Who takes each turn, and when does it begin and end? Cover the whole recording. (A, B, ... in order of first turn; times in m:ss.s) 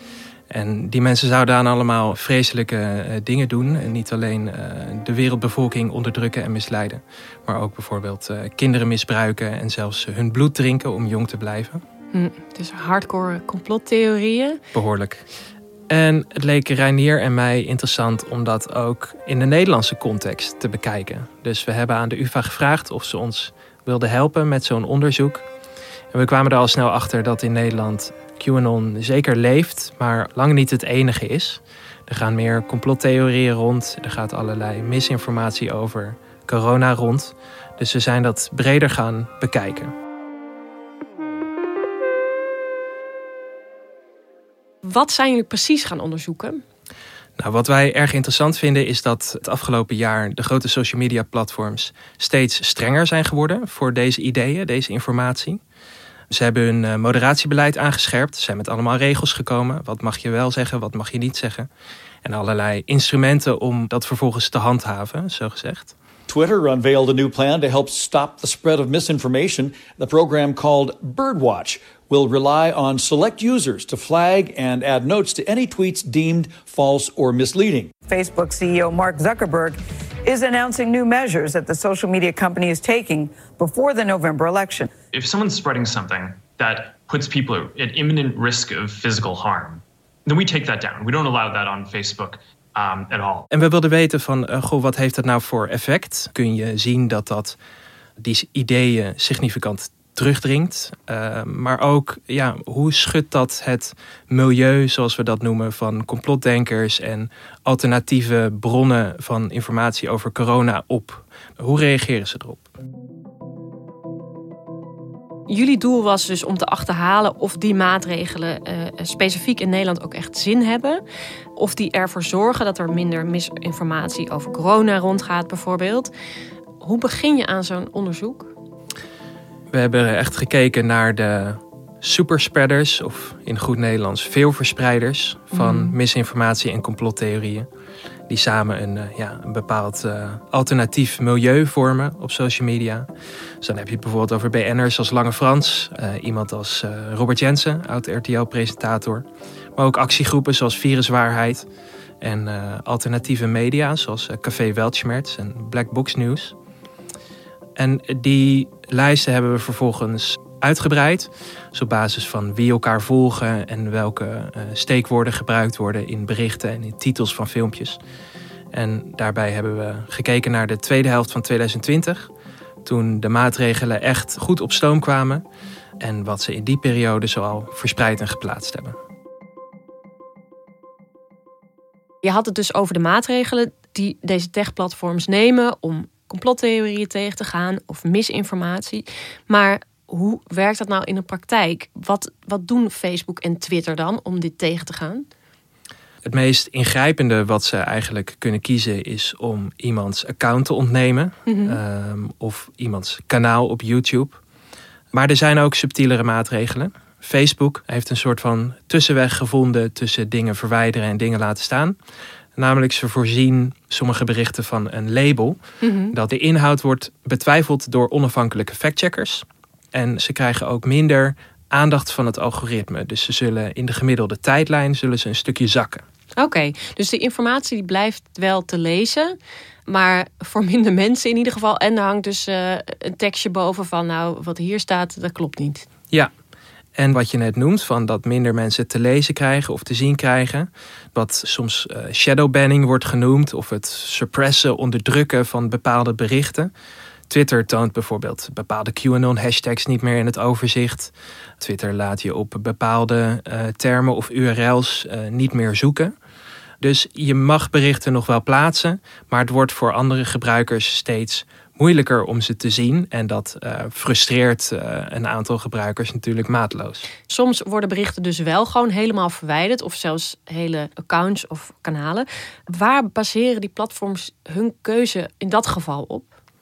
0:00.5-0:11.8 A
0:12.1-0:14.6 B
0:14.7-0:15.2 A
0:15.9-0:25.5 A
0:26.1-0:39.9 A
0:44.8-0:46.6 B
0:47.4-0:55.6 A
0:56.3-1:01.7 A
1:02.2-1:05.9 A
1:06.3-1:17.9 C
1:18.1-1:19.8 D
1:20.3-1:24.9 D
1:25.1-1:33.4 E
1:33.5-1:37.6 A
1:38.2-1:52.7 A
1:55.5-2:01.0 B
2:01.6-2:06.1 B
2:06.8-2:08.5 B
2:09.7-2:17.7 A
2:15.5-2:15.9 B
2:18.3-2:23.1 A
2:23.6-2:29.3 A
2:29.8-2:31.7 A
2:32.2-2:36.6 A
2:37.8-2:48.0 A
2:48.7-2:52.3 A
2:52.8-2:55.4 A
2:56.0-2:59.0 A
3:02.2-3:15.2 B
3:16.2-3:24.4 A
3:21.5-3:21.8 B
3:25.1-3:32.0 A
3:32.6-3:35.6 A
3:35.8-3:36.2 B
3:36.1-3:46.0 A
3:46.4-3:49.4 B
3:49.9-3:55.8 B
3:57.0-4:06.7 A
4:07.3-4:16.1 A
4:16.8-4:27.1 A
4:27.3-4:36.3 B